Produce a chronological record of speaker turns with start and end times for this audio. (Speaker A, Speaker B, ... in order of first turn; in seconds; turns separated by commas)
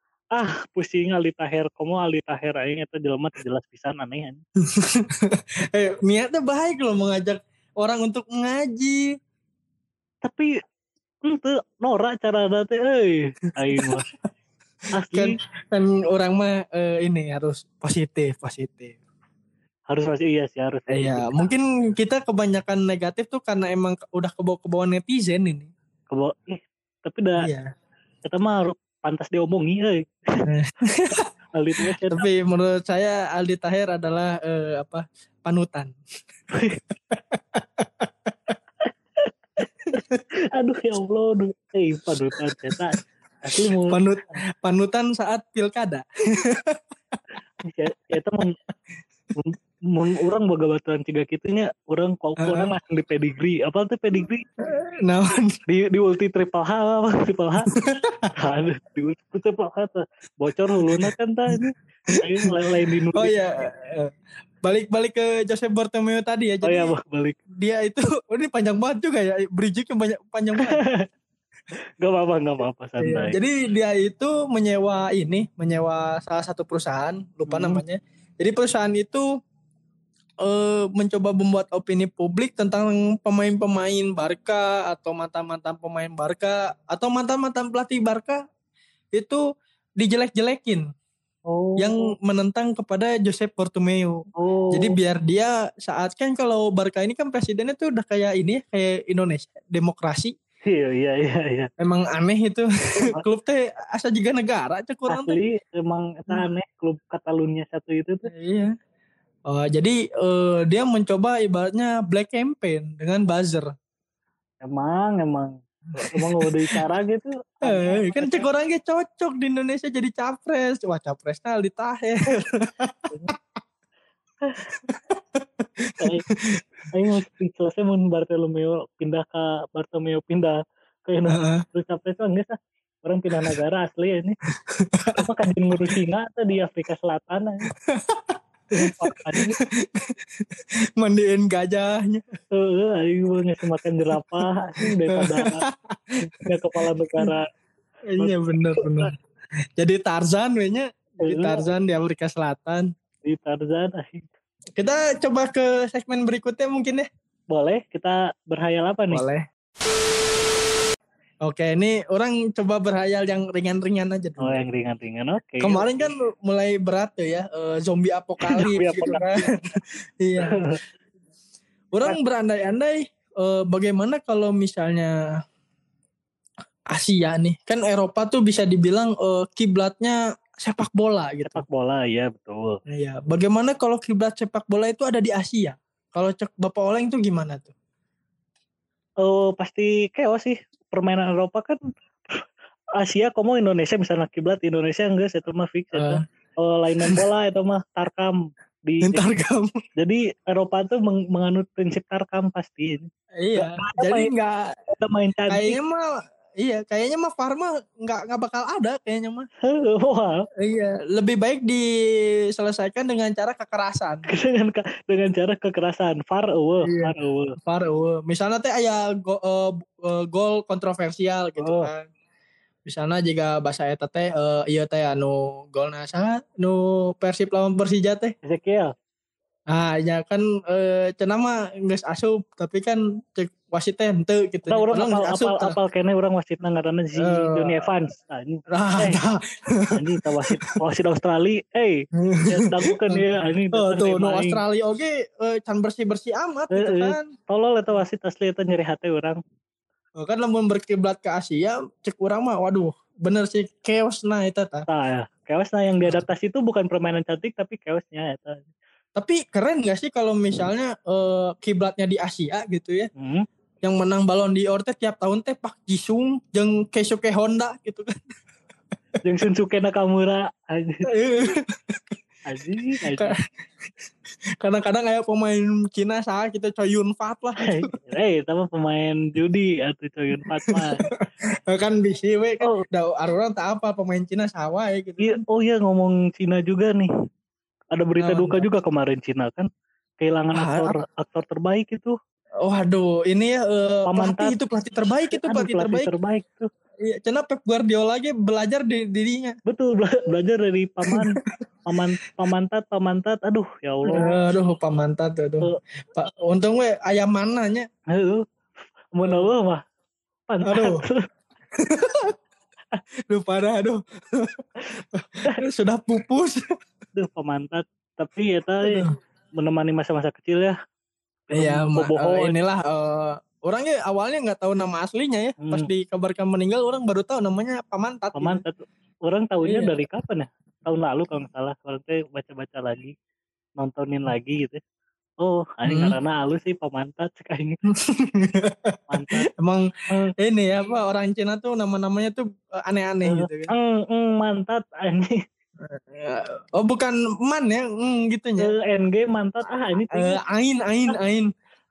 Speaker A: 0.3-4.4, Speaker B: 4.7-9.1, Speaker A: 10.2-10.5, Speaker A: 11.2-14.1, Speaker B: 13.7-14.0, Speaker A: 14.9-15.3, Speaker B: 15.1-19.0, Speaker A: 19.9-21.5, Speaker B: 20.9-25.7, Speaker A: 26.1-27.5, Speaker B: 27.4-27.6, Speaker A: 28.2-30.4, Speaker B: 30.5-31.2, Speaker A: 31.5-32.3, Speaker B: 31.8-35.9, Speaker A: 36.5-36.8, Speaker B: 37.1-38.5, Speaker A: 39.2-40.0, Speaker B: 40.0-40.2, Speaker A: 40.5-44.3, Speaker B: 42.4-42.8, Speaker B: 43.9-47.1, Speaker A: 47.6-48.6, Speaker A: 49.4-54.4, Speaker B: 52.4-52.7, Speaker B: 54.6-55.5, Speaker A: 55.7-57.7, Speaker B: 57.7-58.3, Speaker A: 58.4-63.3, Speaker B: 60.8-61.6, Speaker B: 62.1-62.5, Speaker B: 63.1-64.1, Speaker B: 64.6-66.9, Speaker A: 66.6-67.4, Speaker B: 67.6-70.8, Speaker A: 70.5-71.1, Speaker A: 72.0-73.4, Speaker B: 73.0-79.2, Speaker A: 77.5-77.8, Speaker B: 80.4-88.4, Speaker B: 89.1-89.4, Speaker B: 90.0-90.8, Speaker A: 91.5-92.1, Speaker B: 91.8-100.3, Speaker A: 94.4-95.0, Speaker A: 100.7-101.7, Speaker B: 101.8-105.4, Speaker A: 103.0-103.2, Speaker A: 105.1-108.3, Speaker B: 108.3-108.7, Speaker B: 109.5-113.6, Speaker A: 114.6-118.5, Speaker B: 116.1-116.8, Speaker B: 117.6-123.1, Speaker A: 124.4-124.8, Speaker B: 124.8-126.6, Speaker A: 126.0-126.2, Speaker A: 126.9-134.4, Speaker B: 131.3-131.6, Speaker B: 134.5-135.2, Speaker A: 135.2-137.7, Speaker B: 137.9-140.4, Speaker A: 138.7-139.6, Speaker B: 141.0-142.2, Speaker A: 142.5-145.6, Speaker B: 144.2-145.7, Speaker A: 146.2-147.5, Speaker B: 148.1-149.1, Speaker A: 148.2-149.1, Speaker B: 149.8-152.9, Speaker A: 151.2-151.7, Speaker A: 153.2-154.2, Speaker B: 154.8-157.1, Speaker A: 157.5-159.2, Speaker B: 159.1-159.4, Speaker B: 161.4-164.6, Speaker A: 164.4-166.1, Speaker B: 165.6-169.4, Speaker A: 168.4-169.5, Speaker B: 170.2-170.6, Speaker A: 170.4-170.8, Speaker B: 171.9-175.1, Speaker B: 176.9-181.6, Speaker A: 181.4-182.8, Speaker B: 182.9-187.7, Speaker A: 189.2-191.8, Speaker A: 193.0-199.3, Speaker B: 195.9-196.2, Speaker B: 199.0-199.8, Speaker A: 200.0-204.3, Speaker B: 203.4-204.7, Speaker A: 205.0-205.8, Speaker B: 205.5-209.5, Speaker A: 209.7-210.4, Speaker B: 210.6-211.8, Speaker B: 212.5-214.2, Speaker A: 214.3-217.6, Speaker B: 216.8-222.0, Speaker A: 221.6-221.9, Speaker B: 222.8-228.3, Speaker A: 228.4-228.9, Speaker B: 229.7-235.8, Speaker A: 234.7-239.2, Speaker B: 237.2-237.8, Speaker B: 238.7-240.8, Speaker A: 239.9-244.6, Speaker B: 242.2-247.2, Speaker A: 246.7-249.4, Speaker B: 250.2-254.8, Speaker A: 254.9-258.7, Speaker B: 259.1-263.1, Speaker A: 263.2-263.4, Speaker B: 263.8-268.1, Speaker A: 269.2-271.1, Speaker B: 271.1-272.0, Speaker A: 272.5-273.3, Speaker B: 273.1-273.4, Speaker B: 274.6-277.8, Speaker A: 277.6-281.1, Speaker B: 280.7-281.1, Speaker B: 281.7-285.4, Speaker A: 285.2-287.1, Speaker A: 287.9-289.7, Speaker B: 288.2-288.6, Speaker A: 290.2-292.1, Speaker B: 290.5-290.9, Speaker B: 292.6-296.1, Speaker A: 294.1-294.6, Speaker A: 295.3-296.7, Speaker B: 297.0-299.6, Speaker A: 299.6-304.4, Speaker B: 301.1-301.4, Speaker B: 304.1-307.9, Speaker A: 308.1-308.4, Speaker A: 309.1-309.8, Speaker B: 309.2-309.5, Speaker A: 310.5-311.2, Speaker B: 310.6-311.0, Speaker B: 311.8-312.3, Speaker B: 313.3-316.6, Speaker A: 317.1-319.1, Speaker B: 318.8-319.1, Speaker A: 319.6-320.7, Speaker A: 321.5-322.6, Speaker B: 321.5-328.6, Speaker A: 325.6-325.9, Speaker A: 328.4-333.1, Speaker B: 329.7-330.0, Speaker A: 333.8-334.8, Speaker A: 335.4-337.8, Speaker B: 335.9-336.1, Speaker B: 337.9-339.9, Speaker A: 339.1-339.4, Speaker B: 340.4-343.7, Speaker A: 343.3-345.4, Speaker B: 345.8-348.7, Speaker A: 348.6-350.4, Speaker B: 350.1-351.5